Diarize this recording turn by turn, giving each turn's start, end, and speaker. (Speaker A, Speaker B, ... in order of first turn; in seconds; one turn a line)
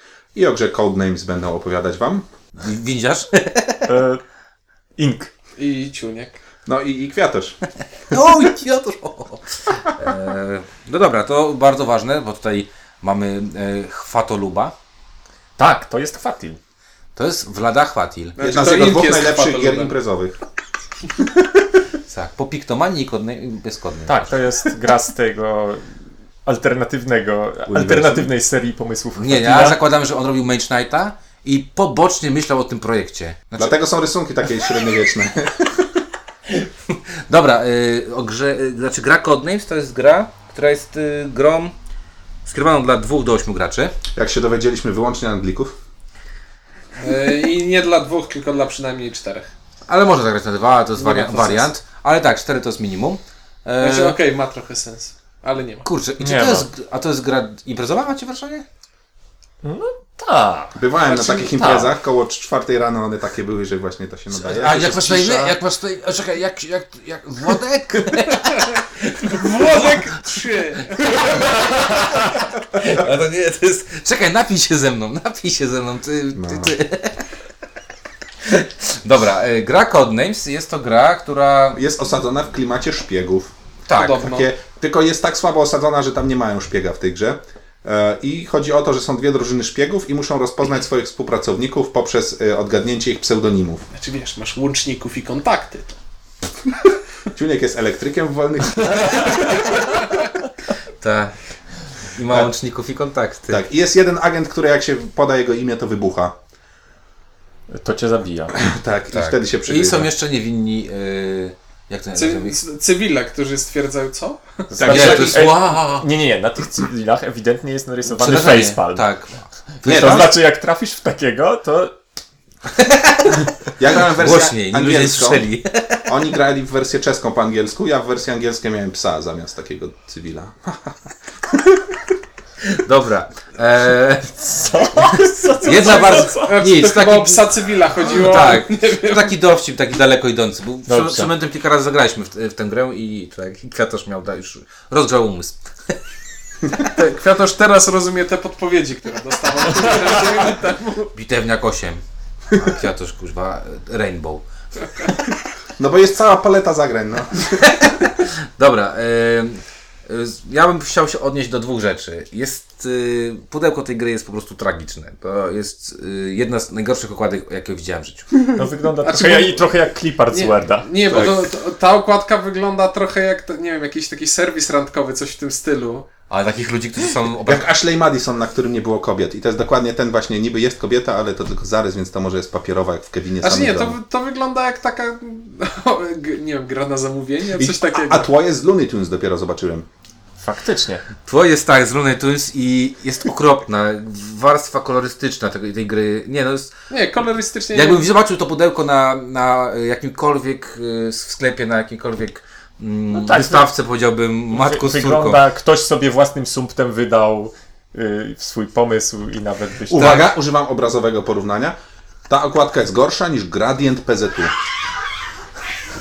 Speaker A: 0.3-2.2
Speaker B: 2.6-3.9
Speaker C: 3.9-4.2
Speaker C: 5.0-5.3
Speaker D: 5.6-6.4
Speaker A: 6.7-7.6
Speaker B: 8.1-14.7
Speaker C: 15.6-16.6
Speaker B: 17.1-18.4
Speaker D: 18.4-19.9
Speaker A: 18.4-20.4
Speaker A: 21.2-21.6
Speaker B: 22.1-24.3
Speaker C: 24.1-25.9
Speaker C: 26.4-29.8
Speaker A: 27.7-28.3
Speaker B: 29.2-33.8
Speaker A: 33.6-35.8
Speaker B: 36.5-41.7
Speaker B: 42.5-43.9
Speaker A: 44.1-45.7
Speaker D: 47.0-49.5
Speaker B: 49.9-54.2
Speaker D: 51.0-51.7
Speaker D: 53.8-55.9
Speaker B: 55.8-58.6
Speaker C: 56.2-56.7
Speaker C: 59.6-61.9
Speaker A: 60.8-65.3
Speaker B: 64.5-70.1
Speaker C: 64.7-65.5
Speaker D: 69.2-71.7
Speaker B: 71.1-77.2
Speaker A: 76.3-76.7
Speaker B: 78.4-81.8
Speaker A: 81.7-83.5
Speaker B: 83.9-84.2
Speaker D: 83.9-84.5
Speaker A: 84.0-93.9
Speaker D: 93.9-96.0
Speaker A: 97.3-99.8
Speaker B: 101.0-101.3
Speaker B: 102.1-103.6
Speaker A: 103.5-106.3
Speaker C: 107.7-108.5
Speaker A: 108.5-110.1
Speaker B: 109.1-112.5
Speaker D: 112.1-114.7
Speaker C: 114.7-119.0
Speaker A: 114.8-115.5
Speaker B: 114.8-116.0
Speaker B: 118.1-120.3
Speaker C: 119.8-122.0
Speaker A: 119.8-120.3
Speaker B: 122.8-126.0
Speaker A: 123.8-125.5
Speaker A: 126.0-130.9
Speaker A: 131.5-131.8
Speaker B: 132.7-134.6
Speaker C: 134.5-136.6
Speaker B: 135.6-145.6
Speaker D: 135.6-139.3
Speaker C: 140.9-141.3
Speaker D: 146.8-151.1
Speaker B: 151.1-152.0
Speaker B: 152.5-154.4
Speaker A: 155.8-157.7
Speaker B: 157.6-168.4
Speaker C: 168.5-170.9
Speaker D: 169.0-169.6
Speaker D: 170.3-176.1
Speaker B: 176.3-177.7
Speaker A: 177.4-184.0
Speaker D: 183.4-188.3
Speaker A: 187.6-189.9
Speaker C: 190.4-191.0
Speaker B: 191.2-196.7
Speaker D: 196.9-198.0
Speaker B: 197.7-205.4
Speaker C: 203.1-203.7
Speaker C: 204.5-210.2
Speaker A: 209.9-211.8
Speaker B: 209.9-210.2
Speaker A: 212.3-214.5